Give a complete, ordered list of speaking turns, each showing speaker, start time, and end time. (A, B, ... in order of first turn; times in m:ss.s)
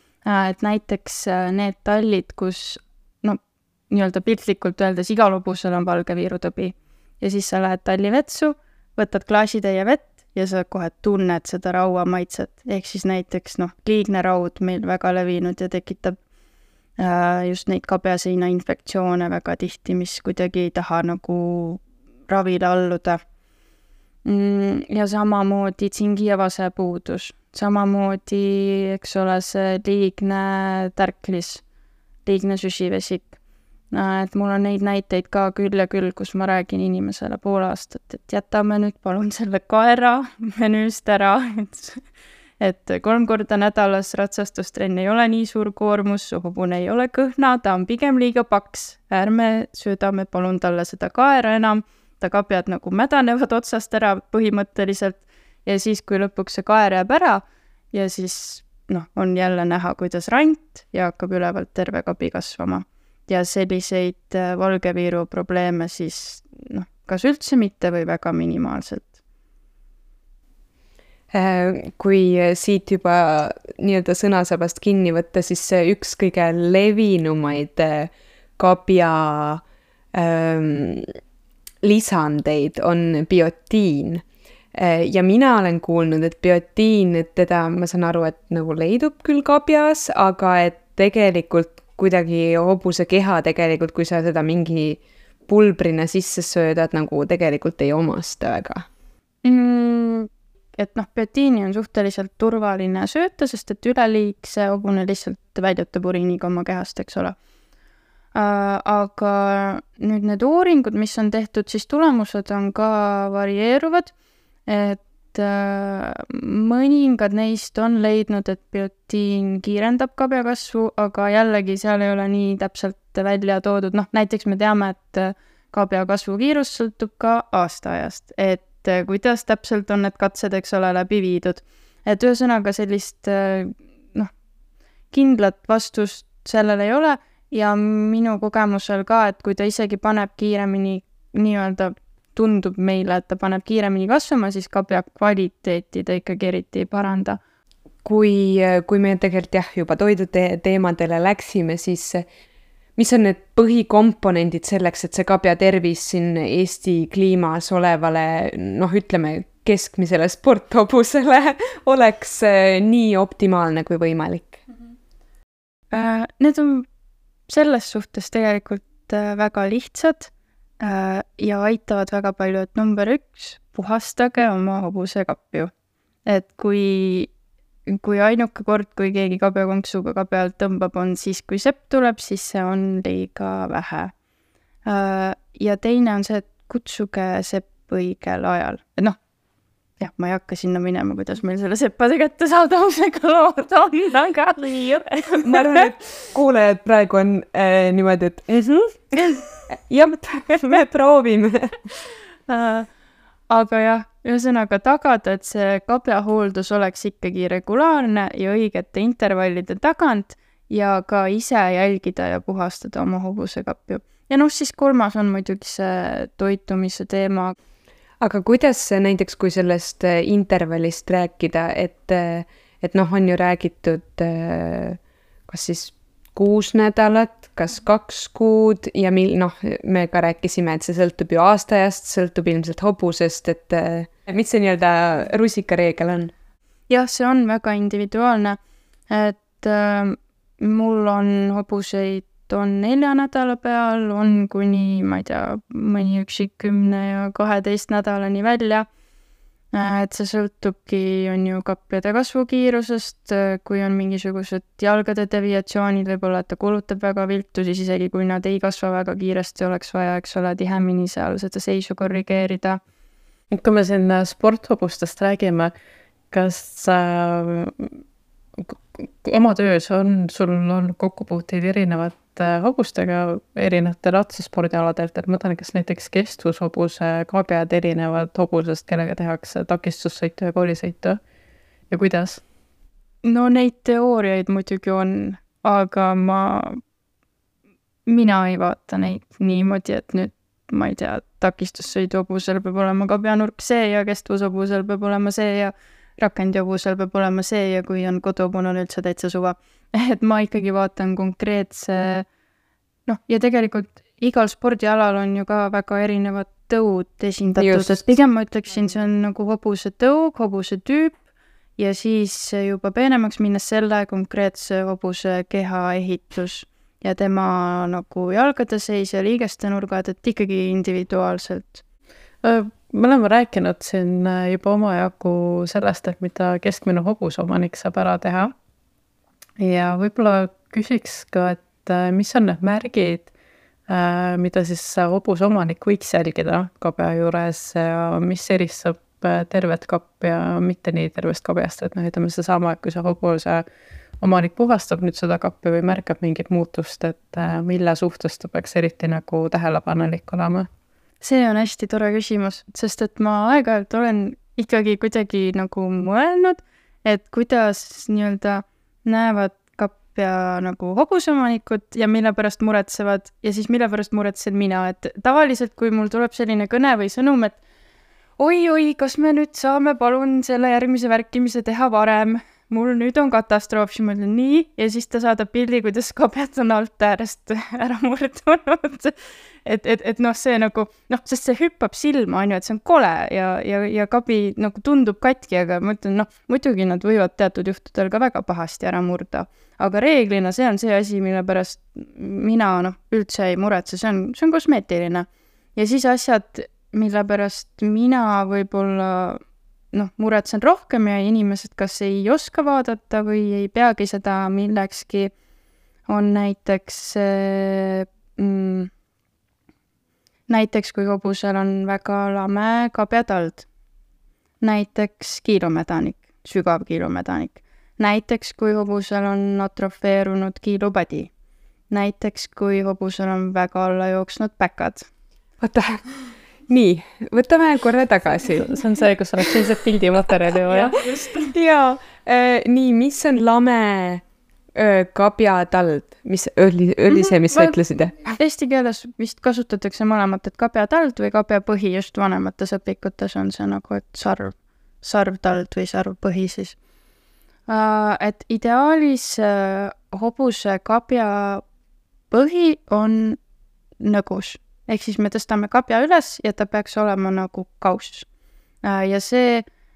0:00.2-0:16.2 A
0:17.0-0:23.2 A
0:24.2-0:31.6 A
0:32.3-0:33.4 A
0:33.9-0:42.0 A
0:42.6-1:09.1 A
1:11.3-1:19.6 B
1:20.1-1:21.1 B
1:21.8-1:24.2 B
1:24.7-1:38.9 B
1:39.4-1:47.4 A
1:48.4-1:54.1 A
1:54.7-2:14.3 A
2:15.1-2:27.4 A
2:28.0-2:32.3 B
2:33.0-2:44.6 B
2:45.9-2:46.9 A
2:47.5-2:55.7 A
2:56.3-2:57.3 A
2:57.9-3:04.1 A
3:04.9-3:09.2 A
3:10.0-3:15.9 A
3:15.4-3:19.2 B
3:19.7-3:21.8 B
3:22.5-3:22.9 A
3:23.5-3:37.6 A
3:38.2-3:56.3 B
3:56.9-3:58.6 A
3:59.1-4:08.9 A
4:09.7-4:22.8 A
4:23.5-4:25.7 C
4:26.3-4:28.0 C
4:28.6-4:41.2 C
4:41.9-4:42.4 C
4:43.2-4:46.8 A
4:48.1-5:02.3 A
5:03.1-5:11.2 A
5:07.6-5:08.1 B
5:11.8-5:21.8 A
5:22.4-5:28.5 C
5:29.6-5:33.3 C
5:33.9-5:43.6 C
5:44.2-5:50.7 C
5:51.2-6:07.6 A
6:08.4-6:39.4 A
6:39.9-6:45.3 A
6:46.1-6:48.9 A
6:50.5-6:53.7 A
6:54.6-7:01.3 A
7:01.9-7:05.1 A
7:05.6-7:06.1 B
7:06.7-7:08.8 B
7:08.7-7:11.0 C
7:10.7-7:11.5 A
7:11.4-7:14.2 B
7:14.8-7:18.4 B
7:18.4-7:26.8 A
7:27.7-7:31.6 A
7:32.3-7:33.4 A
7:34.0-7:38.3 A
7:38.8-7:39.7 A